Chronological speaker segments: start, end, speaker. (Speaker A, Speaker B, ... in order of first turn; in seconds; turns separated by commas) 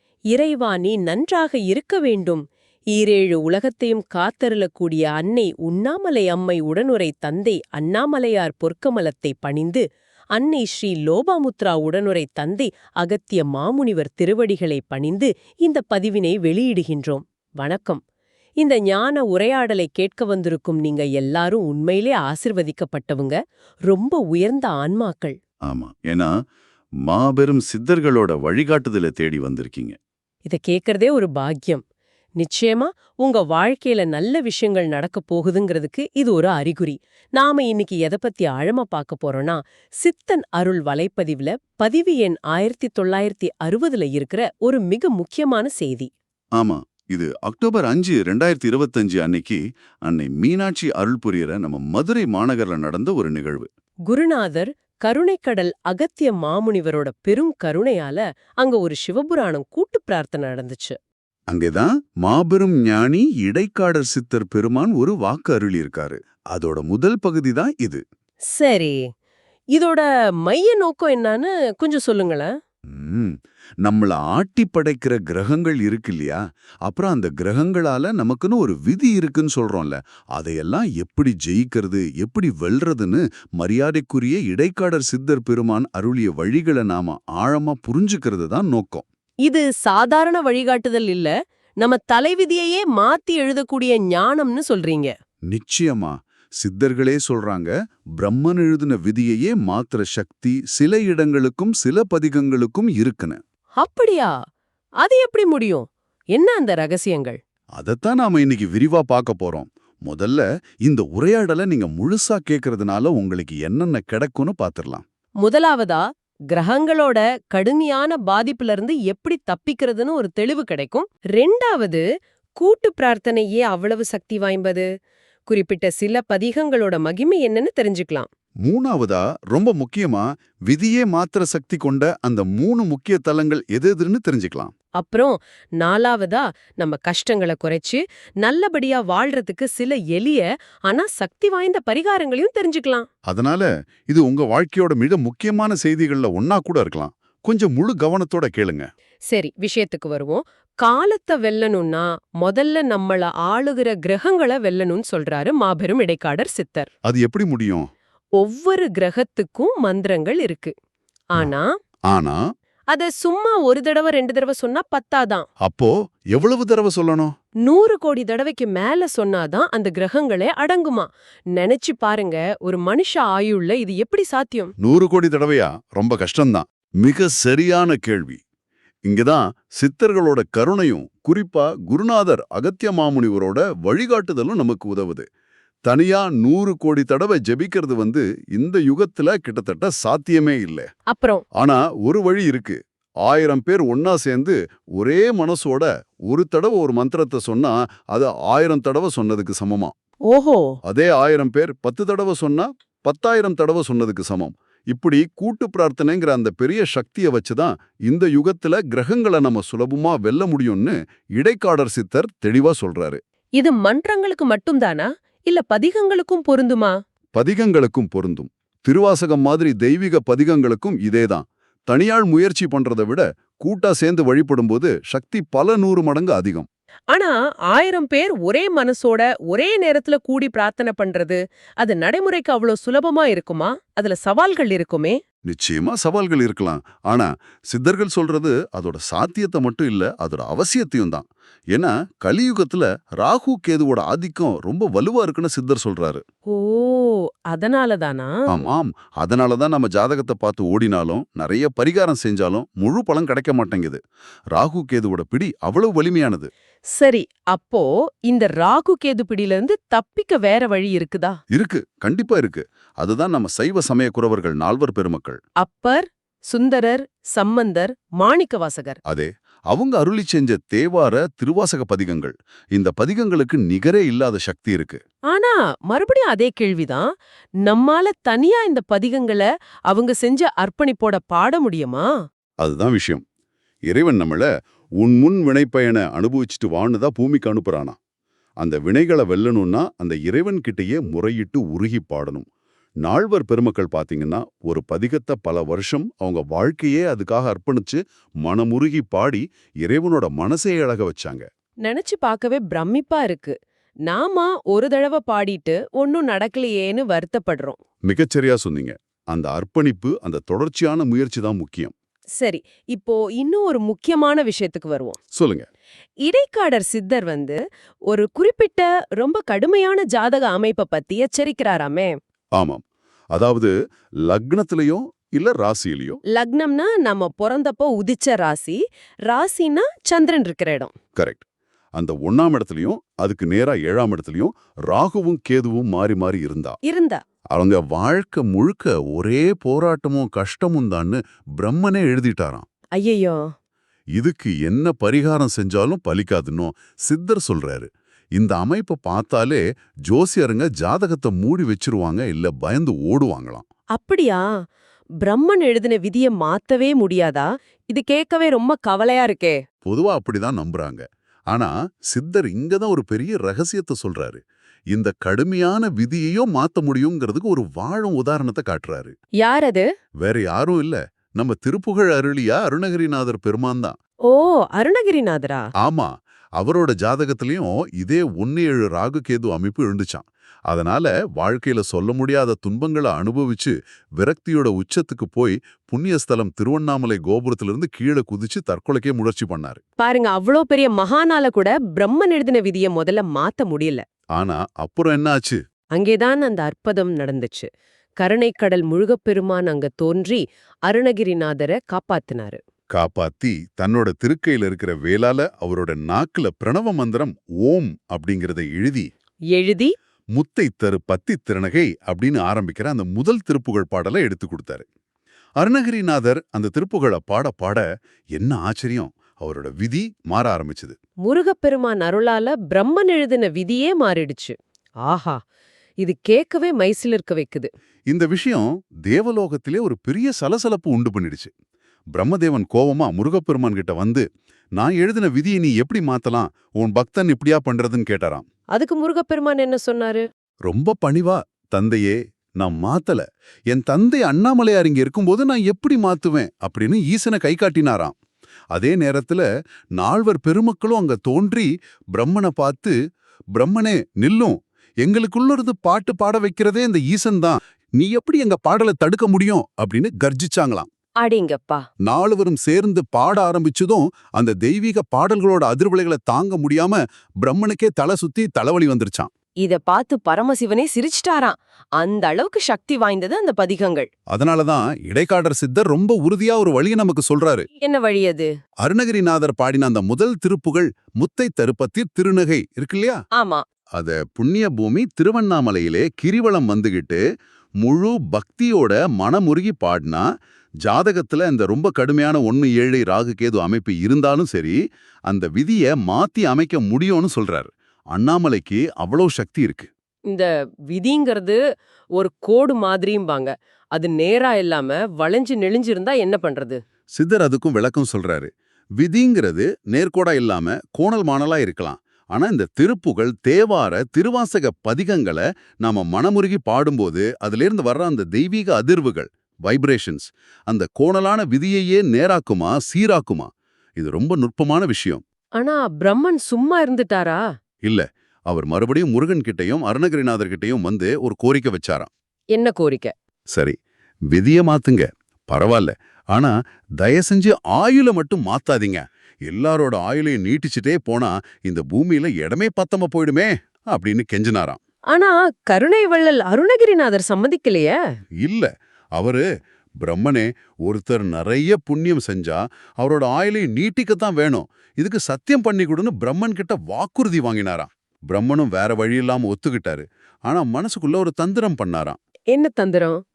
Speaker A: 0.3-2.4, Speaker A: 3.0-9.8, Speaker A: 10.3-18.0, Speaker A: 18.6-23.4, Speaker A: 23.9-25.4, Speaker B: 25.7-26.3, Speaker B: 27.0-30.0, Speaker A: 30.5-31.8, Speaker A: 32.4-46.1, Speaker B: 46.6-53.7, Speaker A: 54.1-61.0, Speaker B: 61.5-68.0, Speaker A: 68.6-69.0, Speaker A: 69.7-72.5, Speaker B: 72.9-89.0, Speaker A: 89.5-95.1, Speaker B: 95.5-103.4, Speaker A: 103.8-104.3, Speaker A: 105.0-107.4, Speaker B: 107.8-115.0, Speaker A: 115.4-116.0, Speaker A: 116.5-122.0, Speaker A: 122.6-124.9, Speaker A: 125.5-128.3, Speaker B: 128.7-134.7, Speaker A: 135.0-143.1, Speaker B: 143.3-148.9, Speaker A: 149.3-156.9, Speaker B: 157.1-157.8, Speaker A: 158.4-160.7, Speaker A: 161.3-161.7, Speaker B: 162.1-162.4, Speaker A: 162.9-165.5, Speaker B: 165.6-167.3, Speaker A: 167.6-174.7, Speaker B: 174.8-178.4, Speaker B: 179.1-185.2, Speaker B: 185.9-190.9, Speaker A: 191.1-191.4, Speaker B: 191.6-199.9, Speaker A: 200.3-200.8, Speaker B: 200.8-213.2, Speaker A: 213.6-216.9, Speaker B: 217.4-226.7, Speaker A: 227.1-235.2, Speaker B: 235.5-246.2, Speaker A: 246.5-248.3, Speaker B: 248.5-254.0, Speaker B: 254.5-256.5, Speaker A: 256.9-261.4, Speaker B: 261.5-265.4, Speaker A: 265.6-269.0, Speaker B: 269.1-275.0, Speaker A: 275.3-277.1, Speaker A: 277.6-282.1, Speaker B: 282.6-283.2, Speaker B: 283.9-284.5, Speaker B: 285.0-288.0, Speaker B: 288.6-292.5, Speaker B: 293.1-301.4, Speaker A: 301.9-303.6, Speaker A: 304.1-307.8, Speaker B: 308.1-311.9, Speaker A: 312.4-315.2, Speaker B: 315.4-315.7, Speaker A: 316.2-317.6, Speaker A: 318.1-322.1, Speaker B: 322.6-323.7, Speaker B: 324.3-326.2, Speaker A: 326.3-330.9, Speaker B: 331.2-331.4, Speaker B: 332.0-336.8, Speaker A: 336.8-337.2, Speaker B: 337.5-342.7, Speaker A: 343.0-343.4, Speaker B: 344.1-353.6, Speaker A: 353.9-354.4, Speaker A: 355.2-359.6, Speaker B: 359.9-364.4, Speaker B: 364.9-369.1, Speaker A: 369.4-369.9, Speaker B: 370.2-373.9, Speaker A: 374.3-375.6, Speaker B: 375.8-389.8, Speaker A: 390.0-394.0, Speaker B: 394.4-395.6, Speaker A: 395.9-397.7, Speaker A: 398.2-402.6, Speaker B: 402.9-409.1, Speaker A: 409.5-409.9, Speaker B: 410.3-414.9, Speaker B: 415.6-417.8, Speaker B: 418.4-420.9, Speaker A: 421.3-425.4, Speaker A: 426.0-427.7, Speaker B: 428.1-431.5, Speaker B: 432.1-434.2, Speaker B: 434.8-438.4, Speaker A: 438.8-440.2, Speaker B: 440.7-448.1, Speaker B: 448.7-449.4, Speaker B: 450.0-452.9, Speaker B: 453.5-460.9, Speaker A: 461.2-461.8, Speaker B: 462.0-469.3, Speaker A: 469.6-474.1, Speaker B: 474.3-477.7, Speaker A: 477.8-478.5, Speaker B: 478.8-483.2, Speaker A: 483.4-483.6, Speaker B: 483.9-487.2, Speaker B: 487.8-490.2, Speaker B: 490.8-494.8, Speaker B: 495.3-499.9, Speaker A: 500.3-501.6, Speaker A: 502.2-506.8, Speaker B: 507.1-525.2, Speaker A: 525.6-527.4, Speaker B: 527.8-532.1, Speaker A: 532.5-533.1, Speaker B: 534.3-544.8, Speaker A: 545.1-548.0, Speaker B: 548.4-549.4, Speaker B: 550.0-562.2, Speaker A: 562.5-563.2